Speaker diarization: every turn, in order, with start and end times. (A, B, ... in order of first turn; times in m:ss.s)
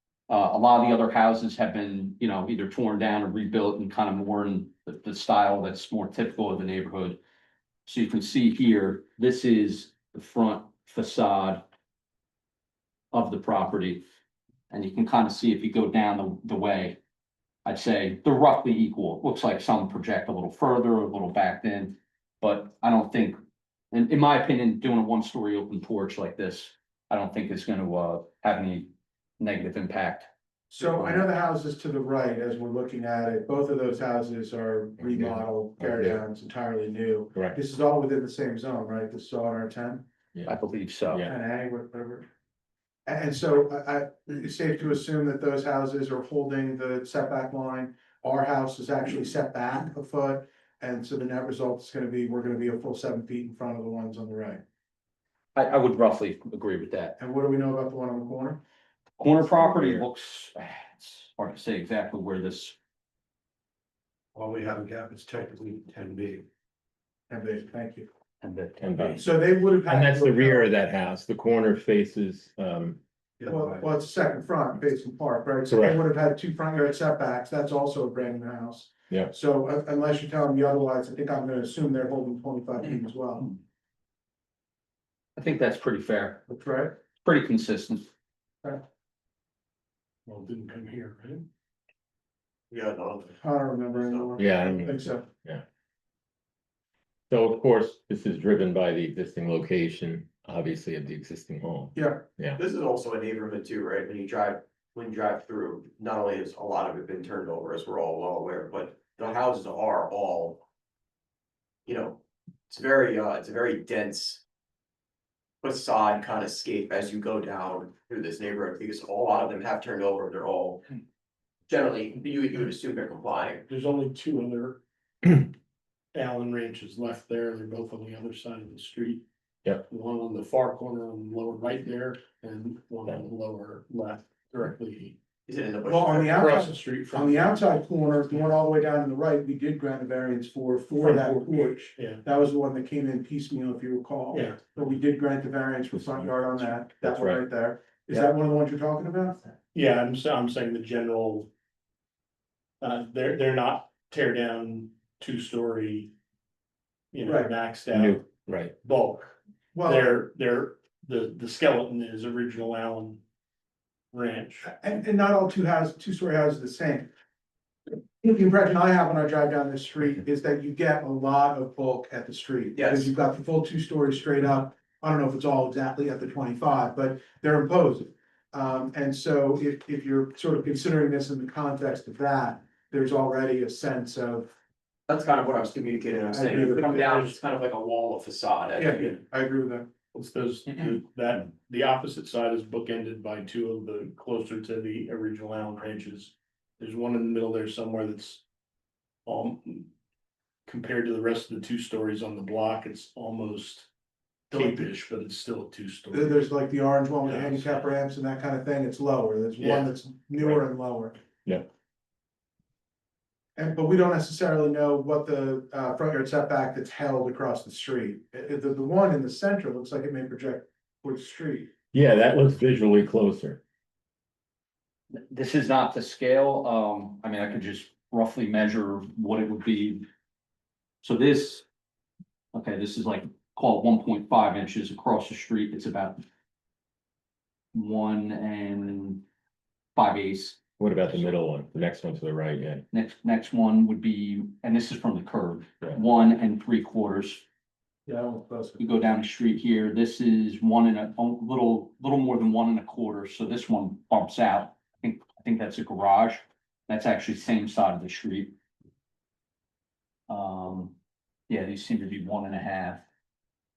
0:00.3-0:07.2 A
0:07.8-0:11.6 A
0:13.1-0:14.0 A
0:14.7-0:17.0 A
0:17.6-0:23.4 A
0:23.9-0:30.3 A
0:30.7-0:40.0 B
0:35.0-0:36.2 C
0:40.4-0:41.2 A
0:41.1-0:41.3 C
0:41.2-0:42.3 B
0:43.0-0:54.6 B
0:55.5-0:57.2 A
0:57.2-0:58.6 B
0:59.2-1:02.8 A
0:59.6-1:00.0 C
1:05.0-1:05.3 B
1:07.3-1:08.1 B
1:08.4-1:09.2 A
1:08.8-1:13.0 C
1:09.2-1:10.7 B
1:13.4-1:23.5 B
1:15.7-1:16.0 C
1:25.4-1:26.4 A
1:26.5-1:26.9 B
1:27.2-1:28.1 A
1:30.2-1:31.5 D
1:32.7-1:33.4 E
1:33.4-1:35.2 B
1:33.9-1:34.3 E
1:34.4-1:35.6 C
1:37.3-1:42.6 C
1:41.9-1:42.2 B
1:42.5-1:50.6 E
1:51.8-1:52.2 E
1:52.7-1:54.4 E
1:55.6-2:00.9 E
2:01.7-2:03.6 E
2:03.7-2:05.5 D
2:06.1-2:15.2 D
2:15.5-2:16.5 E
2:15.8-2:29.6 B
2:16.3-2:17.7 D
2:21.0-2:22.2 D
2:24.3-2:24.6 D
2:27.0-2:27.4 C
2:29.7-2:31.5 D
2:32.8-2:36.1 D
2:37.1-2:43.2 D
2:37.2-2:37.5 B
2:37.9-2:38.7 C
2:39.7-2:40.1 B
2:44.1-2:44.7 D
2:44.6-2:47.1 B
2:48.2-3:04.5 B
2:52.7-2:53.1 E
3:05.1-3:09.2 E
3:06.1-3:07.0 B
3:06.5-3:07.4 D
3:08.7-3:09.9 B
3:10.1-3:18.4 D
3:19.2-3:19.9 D
3:20.6-3:23.9 D
3:24.5-3:26.4 D
3:24.6-3:24.8 B
3:26.1-3:31.2 B
3:27.2-3:27.8 D
3:29.6-3:29.9 D
3:33.6-3:41.7 B
3:41.9-3:43.6 C
3:45.1-3:50.0 A
3:51.0-3:51.6 A
3:52.5-3:56.2 A
3:57.7-3:59.2 A
3:59.9-4:00.6 A
4:00.8-4:02.8 C
4:02.9-4:07.4 A
4:08.0-4:08.8 B
4:08.8-4:18.5 A
4:20.3-4:20.9 A
4:21.5-4:23.0 A